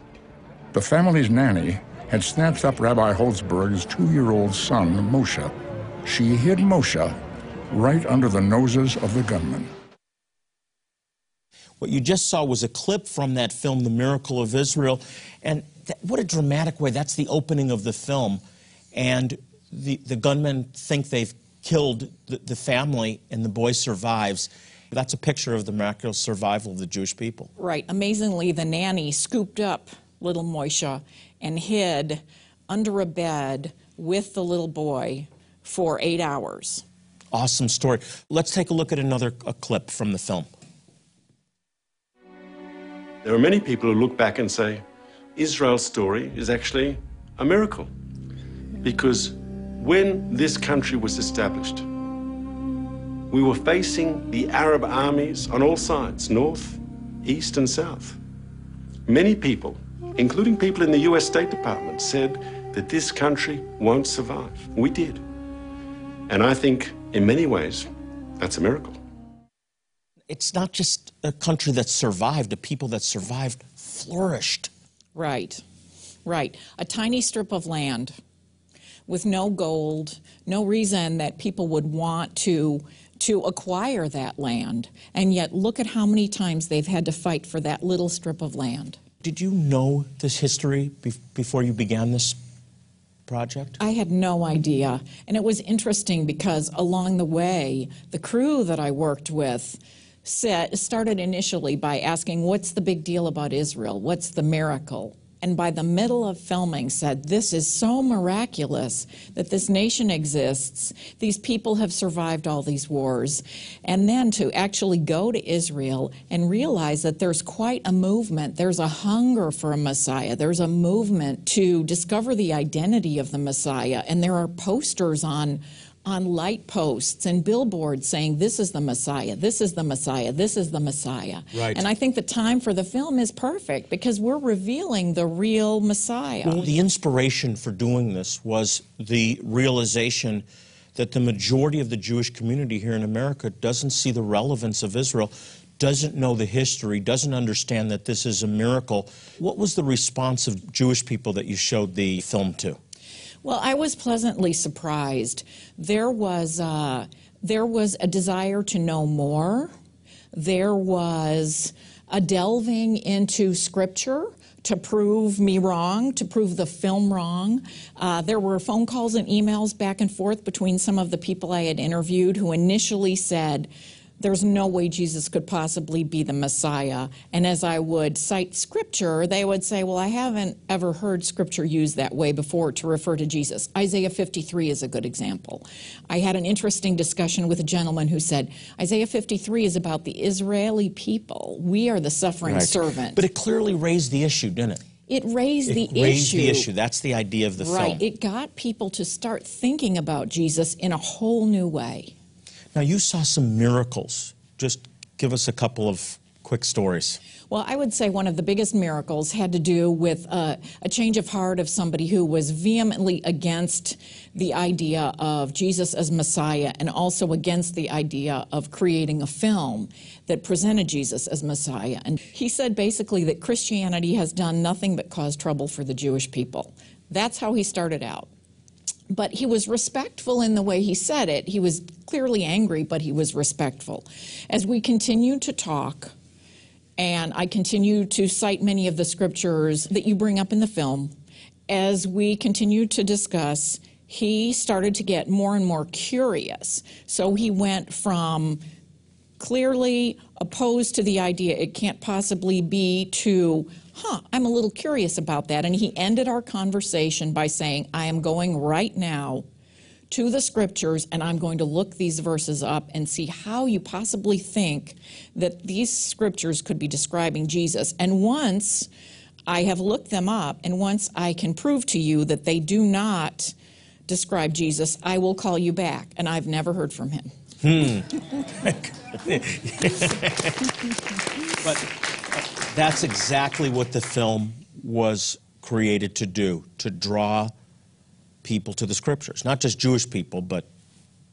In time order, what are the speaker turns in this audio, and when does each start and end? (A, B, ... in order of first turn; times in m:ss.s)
0:00.7-0:05.5 A
0:06.0-0:07.2 A
0:07.7-0:09.7 A
0:11.8-0:18.4 B
0:18.9-0:27.5 B
0:27.6-0:36.8 C
0:37.3-0:40.5 B
0:43.2-0:44.8 D
0:45.4-0:47.9 D
0:48.8-0:51.9 D
0:53.3-0:58.2 D
0:59.1-1:05.2 D
1:06.3-1:09.0 D
1:10.3-1:14.7 B
1:15.2-1:15.6 C
1:16.3-1:18.2 C
1:19.1-1:29.0 C
1:29.2-1:32.4 B
1:33.3-1:33.8 B
1:33.8-2:16.7 C
2:11.5-2:11.8 B
2:16.4-2:32.8 B
2:33.4-2:39.7 C
2:40.3-3:13.2 C
3:12.4-3:14.8 B
3:15.1-3:16.7 C
3:15.7-3:18.0 B
3:17.6-3:22.1 C
3:22.7-3:27.2 B
3:27.5-3:48.3 C
3:49.1-3:56.1 C
3:57.0-4:01.1 C
4:01.7-4:08.6 C
4:09.4-4:19.4 C
4:20.1-4:28.9 C
4:29.5-4:33.6 C
4:34.1-4:37.3 C
4:37.6-4:47.5 B
4:48.4-4:50.7 B